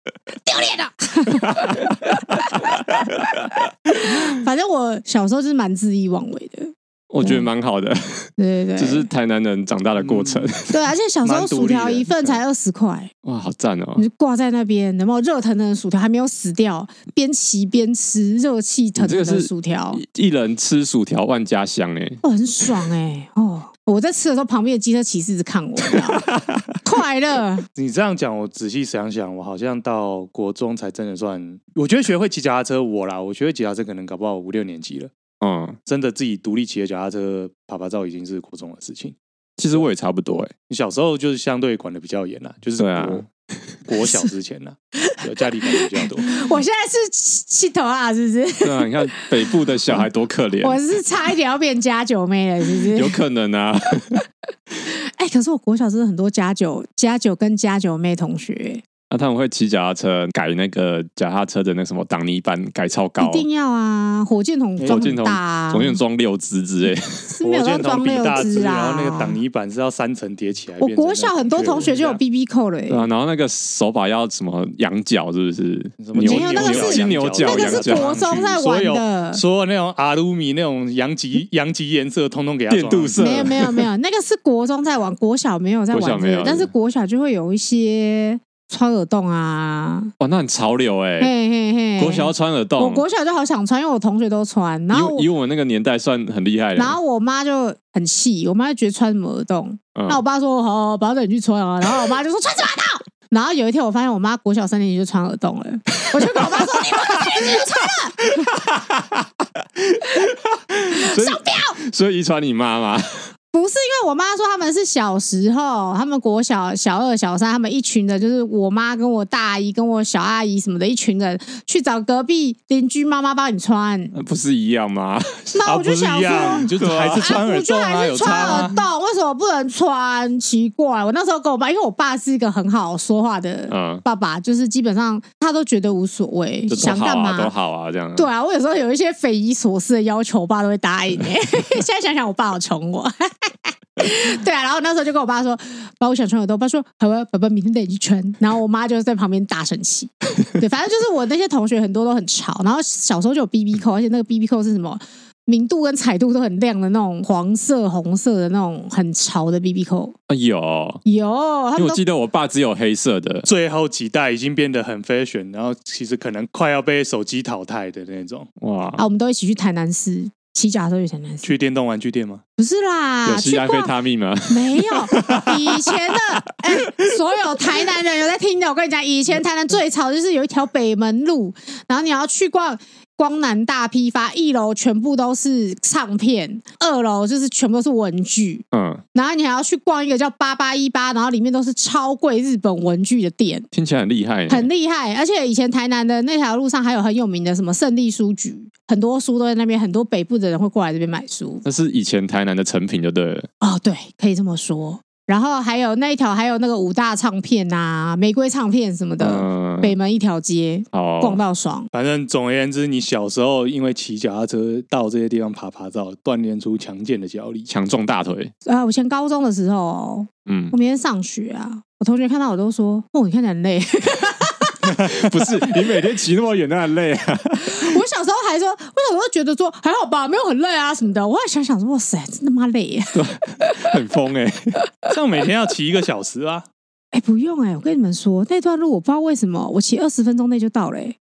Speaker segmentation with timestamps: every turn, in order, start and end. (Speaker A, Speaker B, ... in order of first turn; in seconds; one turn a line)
Speaker A: 0.4-2.8
Speaker B: 1.4-4.3
Speaker A: 3.9-7.5
Speaker B: 7.1-10.7
Speaker A: 8.4-9.1
Speaker C: 10.0-10.6
Speaker A: 10.7-13.1
Speaker C: 11.2-12.3
Speaker B: 13.2-14.0
Speaker A: 13.9-20.0
Speaker B: 19.0-22.2
Speaker A: 22.2-26.3
Speaker B: 26.1-26.7
Speaker A: 26.8-27.6
Speaker C: 27.8-35.1
Speaker B: 35.4-35.8
Speaker C: 35.9-39.2
Speaker B: 39.6-40.5
Speaker C: 40.7-43.3
Speaker B: 42.8-43.2
Speaker C: 43.8-46.3
Speaker A: 45.7-50.0
Speaker B: 48.6-50.8
Speaker A: 50.6-53.2
Speaker B: 52.9-54.2
Speaker A: 54.9-58.8
Speaker B: 59.1-63.5
Speaker A: 63.2-66.0
Speaker C: 64.8-65.0
Speaker B: 64.9-67.2
Speaker A: 67.3-69.4
Speaker C: 67.4-72.2
Speaker A: 70.8-73.0
Speaker B: 72.9-78.2
Speaker C: 76.0-83.2
Speaker A: 76.2-79.4
Speaker B: 82.7-83.8
Speaker A: 83.2-90.1
Speaker B: 85.9-86.7
Speaker B: 90.2-91.3
Speaker A: 91.2-95.3
Speaker B: 92.0-93.0
Speaker B: 94.9-97.0
Speaker A: 96.8-108.2
Speaker B: 99.9-100.2
Speaker B: 106.0-113.3
Speaker A: 110.9-111.8
Speaker A: 113.5-124.1
Speaker B: 124.1-125.6
Speaker A: 125.5-137.5
Speaker C: 125.6-128.8
Speaker B: 126.7-127.4
Speaker B: 128.2-128.8
Speaker B: 133.7-134.0
Speaker B: 136.7-138.3
Speaker A: 138.1-160.1
Speaker B: 160.3-161.0
Speaker A: 161.0-162.0
Speaker B: 161.8-163.5
Speaker C: 163.4-168.5
Speaker B: 168.6-169.0
Speaker A: 169.0-171.5
Speaker C: 171.4-172.4
Speaker A: 172.6-173.9
Speaker B: 173.2-175.7
Speaker A: 174.5-193.7
Speaker B: 188.7-189.0
Speaker B: 193.7-194.7
Speaker A: 194.5-201.6
Speaker B: 201.6-203.5
Speaker A: 203.6-211.9
Speaker B: 209.2-209.9
Speaker B: 210.9-211.4
Speaker C: 211.9-217.7
Speaker B: 217.7-218.5
Speaker A: 218.6-224.9
Speaker B: 220.4-220.7
Speaker B: 225.0-228.0
Speaker A: 227.7-233.9
Speaker B: 233.1-234.8
Speaker C: 235.1-236.7
Speaker A: 237.1-241.2